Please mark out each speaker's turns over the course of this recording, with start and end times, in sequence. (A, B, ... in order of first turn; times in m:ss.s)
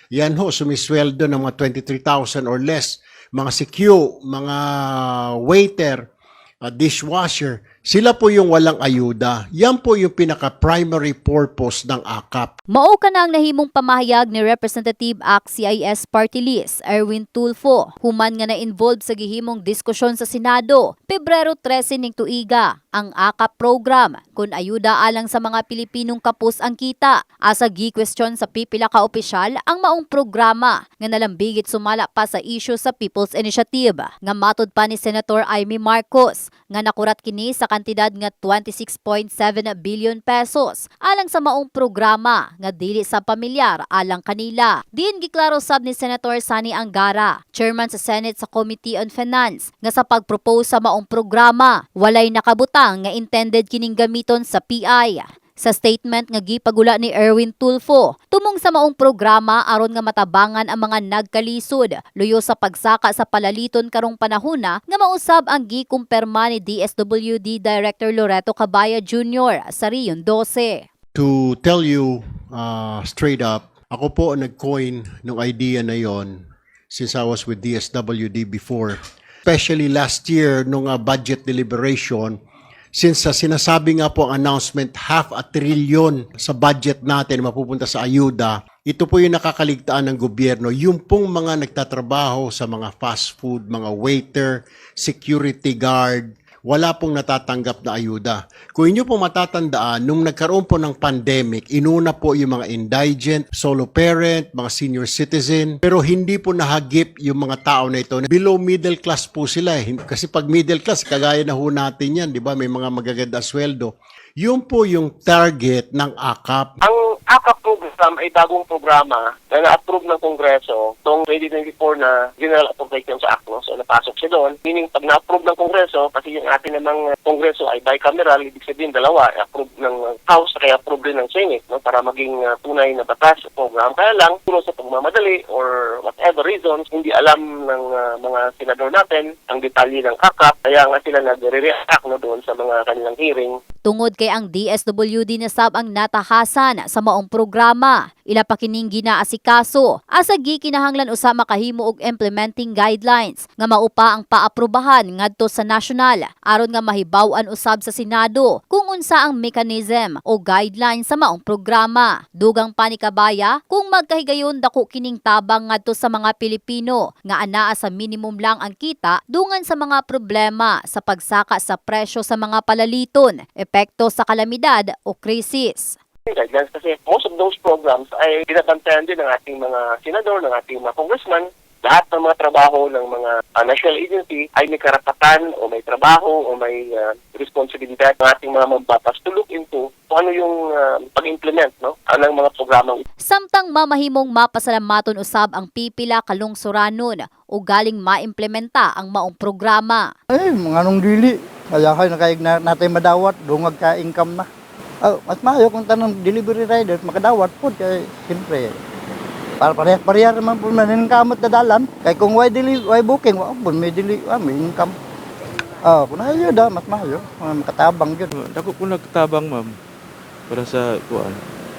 0:00.2-0:06.0 A
0:06.6-0:12.5 A
0:12.7-1:10.8 B
1:11.2-1:16.3 A
1:16.9-1:22.4 A
1:23.0-1:56.7 A
1:56.8-2:23.6 C
2:23.8-2:56.0 B
2:56.3-3:13.0 C
3:13.2-3:20.1 B
3:20.3-3:24.5 D
3:25.0-3:28.8 D
3:29.6-3:35.0 D
3:35.8-3:38.3 D
3:38.4-3:39.7 E
3:40.5-3:41.4 E